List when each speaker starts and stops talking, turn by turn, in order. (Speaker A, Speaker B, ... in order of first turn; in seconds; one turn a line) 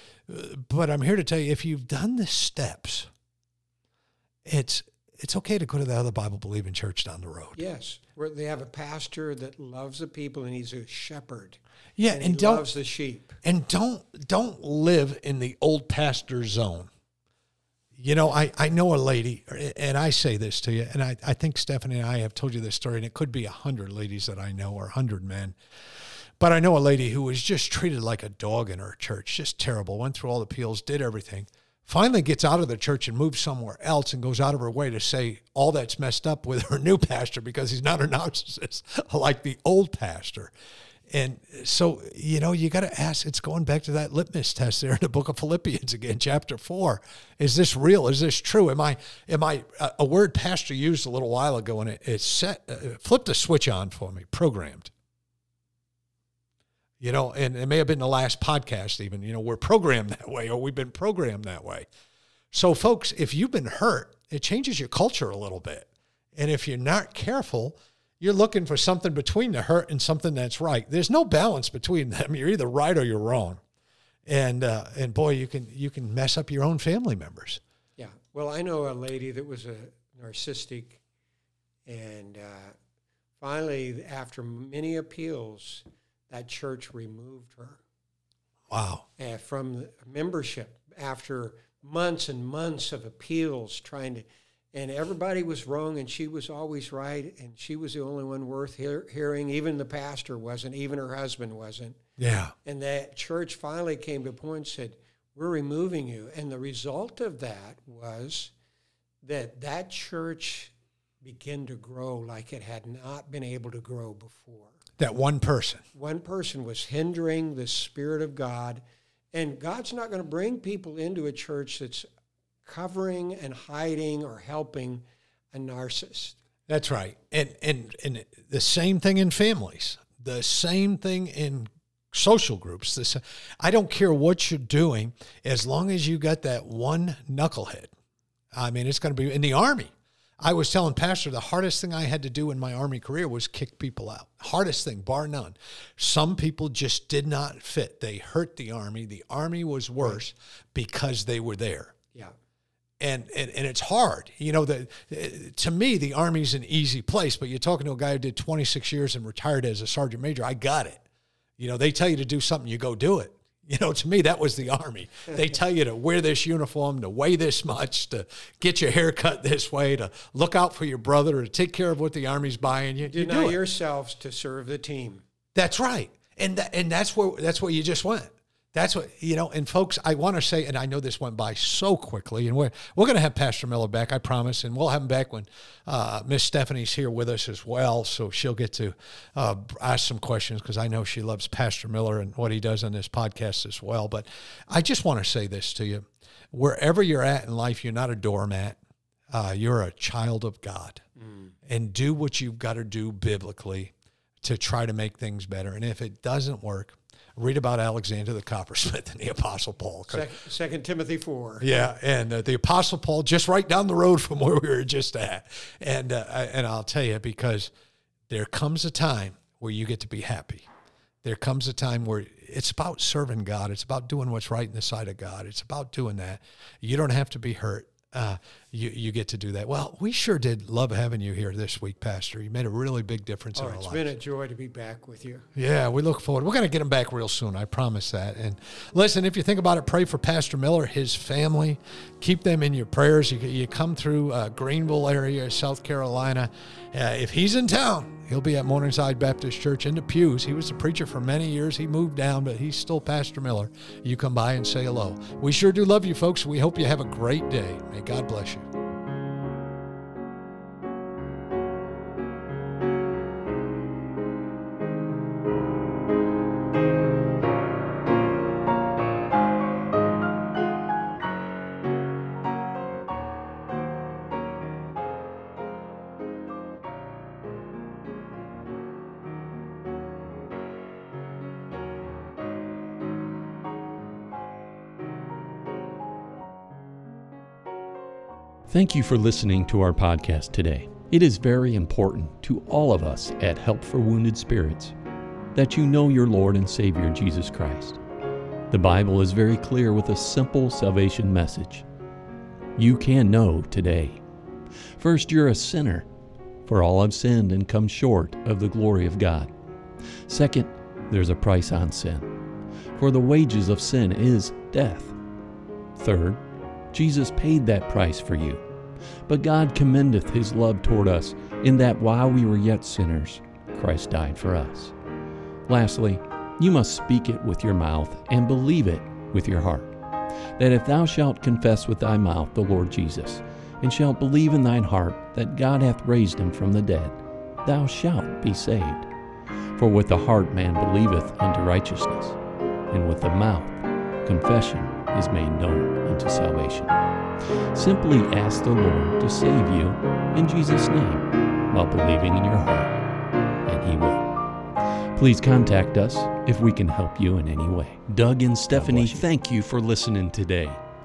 Speaker A: 0.3-3.1
Speaker A: 4.5-7.6
Speaker B: 7.5-13.4
Speaker A: 12.0-12.7
Speaker A: 13.4-16.9
Speaker A: 17.9-25.5
Speaker A: 26.4-40.5
Speaker A: 41.1-54.9
Speaker A: 57.0-61.9
Speaker A: 62.5-73.6
Speaker A: 74.2-77.6
Speaker B: 78.0-81.0
Speaker B: 81.9-82.8
Speaker B: 83.4-87.8
Speaker A: 88.7-89.0
Speaker B: 89.2-102.0
Speaker A: 102.2-102.5
Speaker B: 102.6-108.5
Speaker B: 109.2-114.8
Speaker A: 115.0-115.8
Speaker B: 115.9-122.1
Speaker B: 122.6-126.4
Speaker A: 126.7-137.9
Speaker A: 138.5-152.0
Speaker A: 153.0-161.0
Speaker A: 161.6-173.6
Speaker B: 173.0-175.2
Speaker A: 175.5-198.8
Speaker A: 199.3-201.0
Speaker B: 201.2-201.5
Speaker A: 201.7-210.3
Speaker B: 210.1-211.7
Speaker A: 211.6-217.7
Speaker A: 218.3-220.7
Speaker A: 221.2-234.0
Speaker B: 233.5-235.4
Speaker A: 235.5-258.7
Speaker C: 288.7-294.9
Speaker C: 295.5-298.0
Speaker C: 298.7-301.8
Speaker C: 302.8-304.2
Speaker C: 305.0-306.1
Speaker C: 306.6-309.5
Speaker C: 310.3-312.3
Speaker C: 312.9-315.1
Speaker C: 316.0-316.4
Speaker C: 316.9-318.6
Speaker C: 319.3-324.9
Speaker C: 325.7-329.9
Speaker C: 330.6-339.1
Speaker C: 339.8-342.4
Speaker C: 342.9-346.9
Speaker C: 347.7-352.9
Speaker C: 353.6-354.3
Speaker C: 355.1-360.8